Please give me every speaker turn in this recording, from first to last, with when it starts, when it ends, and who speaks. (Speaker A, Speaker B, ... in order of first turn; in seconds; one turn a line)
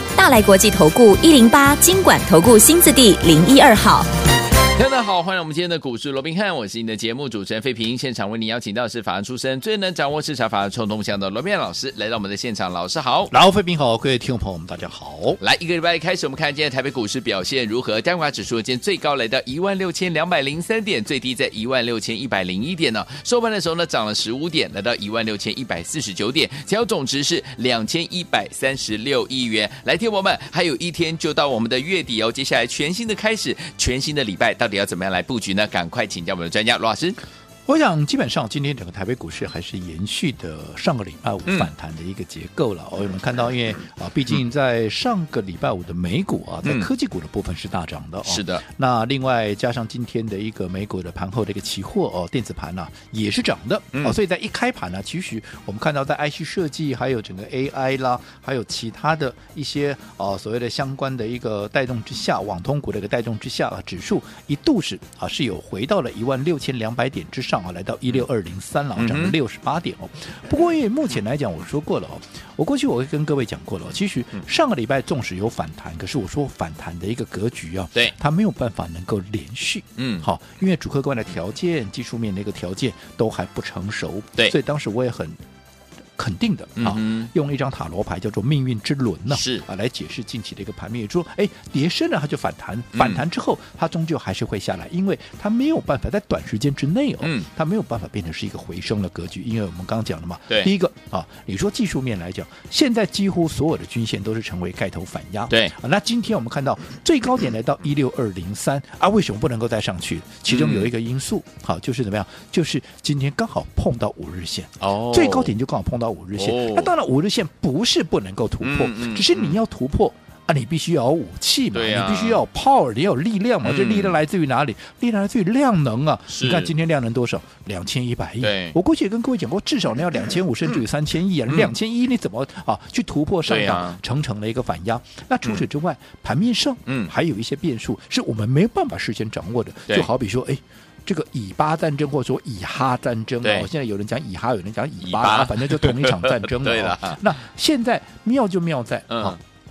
Speaker A: 0.2-4.1
Speaker B: 4.8-13.3
Speaker C: 13.3-15.4
Speaker B: 15.4-37.2
Speaker C: 37.7-85.4
Speaker B: 48.2-48.6
Speaker B: 69.0-69.4
Speaker B: 80.0-80.3
Speaker C: 86.2-149.4
Speaker B: 86.8-87.3
Speaker B: 89.3-89.6
Speaker B: 92.9-93.2
Speaker B: 97.2-97.5
Speaker B: 110.5-110.9
Speaker B: 114.8-115.5
Speaker B: 116.4-116.9
Speaker B: 118.6-119.6
Speaker B: 121.7-122.4
Speaker B: 123.6-124.2
Speaker B: 126.3-126.7
Speaker B: 128.4-128.8
Speaker B: 133.5-134.0
Speaker B: 136.9-137.1
Speaker B: 143.4-143.7
Speaker B: 145.0-147.2
Speaker B: 149.1-149.4